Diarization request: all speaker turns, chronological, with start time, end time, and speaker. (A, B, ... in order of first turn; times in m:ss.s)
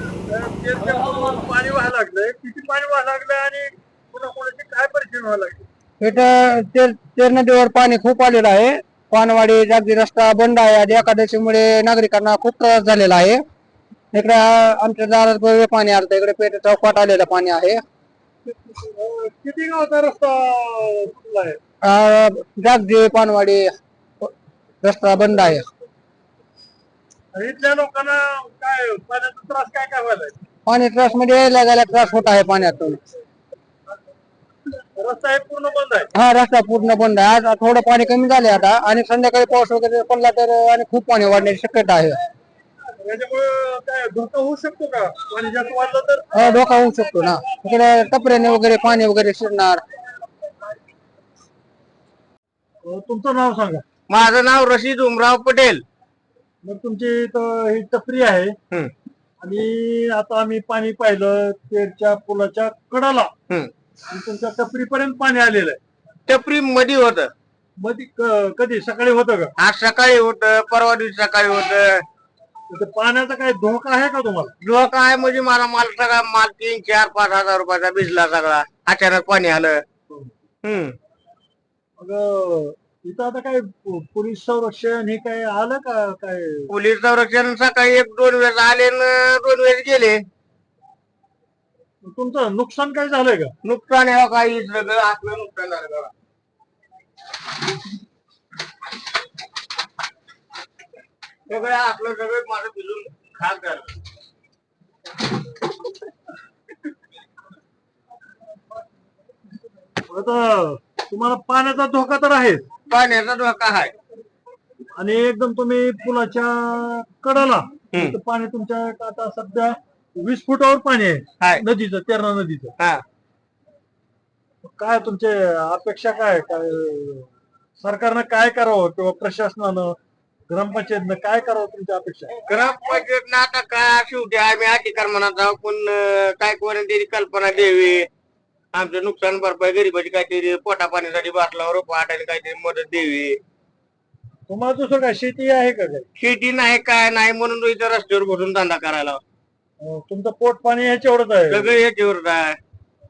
0:00.3-0:05.7 A
0:06.0-0:13.4 B
0:14.1-0:17.8 B
0:18.6-0:21.6 A
0:21.8-0:23.7 B
0:24.8-0:25.6 B
0:27.3-0:30.4 A
0:30.7-0:33.0 B
0:35.0-0:36.1 A
0:36.2-0:42.2 B
0:43.0-0:46.2 A
0:46.3-0:49.8 B
0:52.8-0:53.8 A
0:54.1-0:55.8 C
0:56.6-0:58.6 A
0:59.4-1:03.3 A
1:04.1-1:05.8 A
1:06.3-1:07.3 C
1:07.8-1:09.5 A
1:09.6-1:12.0 C
1:12.7-1:14.5 A
1:14.6-1:19.8 C
1:20.6-1:21.0 C
1:22.0-1:26.7 A
1:26.7-1:30.2 C
1:32.0-1:33.5 A
1:33.6-1:36.1 C
1:41.5-1:43.9 C
1:50.1-1:52.6 A
1:52.9-1:53.9 C
1:55.0-2:02.7 A
2:04.7-2:07.3 A
2:07.8-2:10.0 A
2:10.5-2:12.3 A
2:12.5-2:18.1 C
2:18.7-2:23.4 C
2:24.5-2:26.1 A
2:26.2-2:29.2 C
2:29.8-2:31.7 A
2:31.5-2:32.6 C